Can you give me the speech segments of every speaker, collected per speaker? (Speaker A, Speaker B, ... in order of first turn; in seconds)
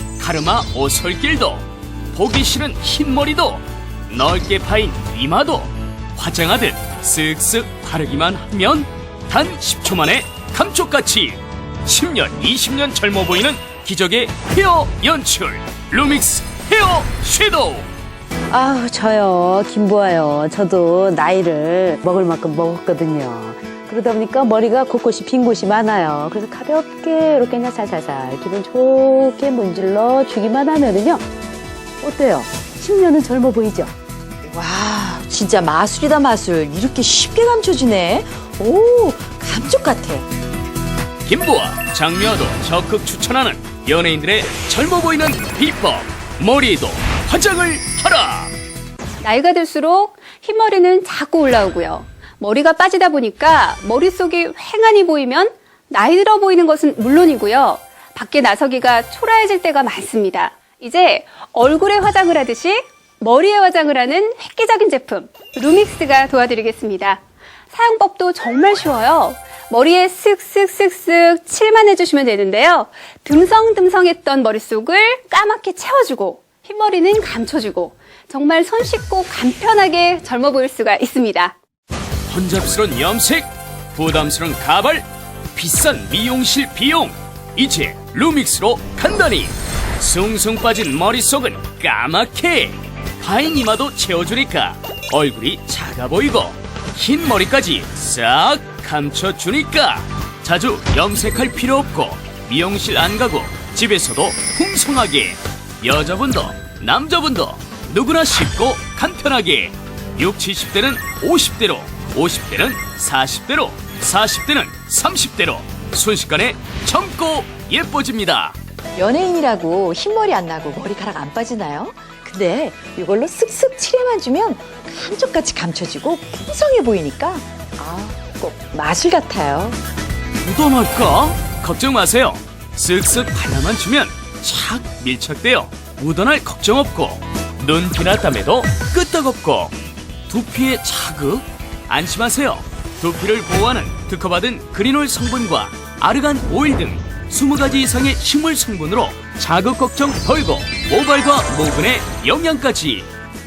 Speaker A: 0.2-17.9, 41.2-48.5, 82.3-118.5, 130.4-139.7, 140.3-153.1
Speaker B: 18.5-31.2, 32.0-33.9
Speaker C: 34.4-40.3, 119.0-129.8
Speaker D: 49.2-81.5